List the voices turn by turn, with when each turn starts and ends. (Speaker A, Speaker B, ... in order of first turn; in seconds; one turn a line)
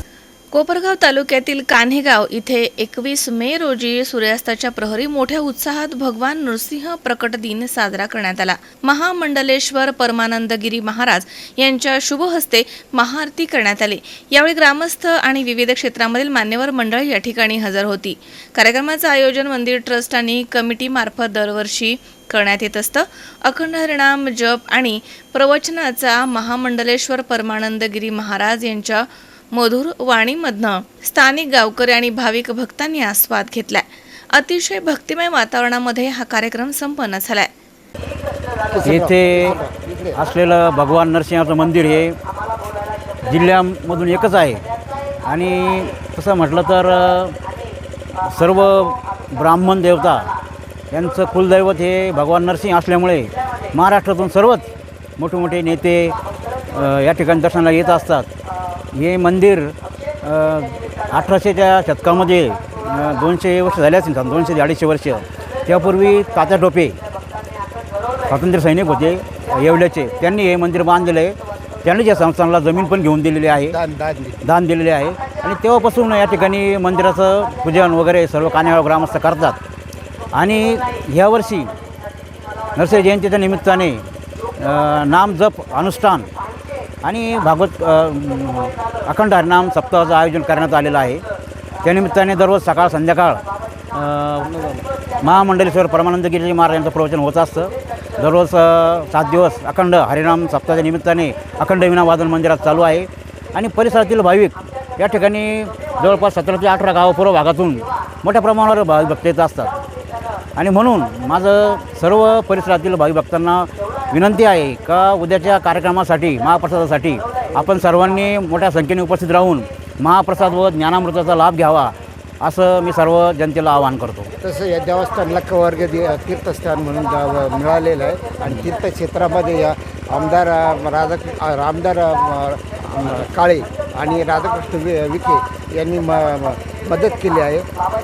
Speaker A: 0.5-37.5
Speaker B: 38.7-40.2
Speaker C: 38.9-39.6
Speaker C: 40.1-42.1
Speaker C: 43.2-44.6
Speaker C: 45.2-47.4
Speaker C: 48.2-50.3
Speaker C: 50.9-56.2
Speaker C: 56.7-58.3
Speaker C: 58.9-67.0
Speaker C: 68.3-73.8
Speaker B: 73.7-74.4
Speaker C: 74.4-79.6
Speaker C: 80.3-81.7
Speaker C: 82.8-84.0
Speaker C: 84.6-86.3
Speaker C: 87.0-91.2
Speaker C: 91.8-109.8
Speaker C: 110.6-124.3
Speaker B: 124.4-137.7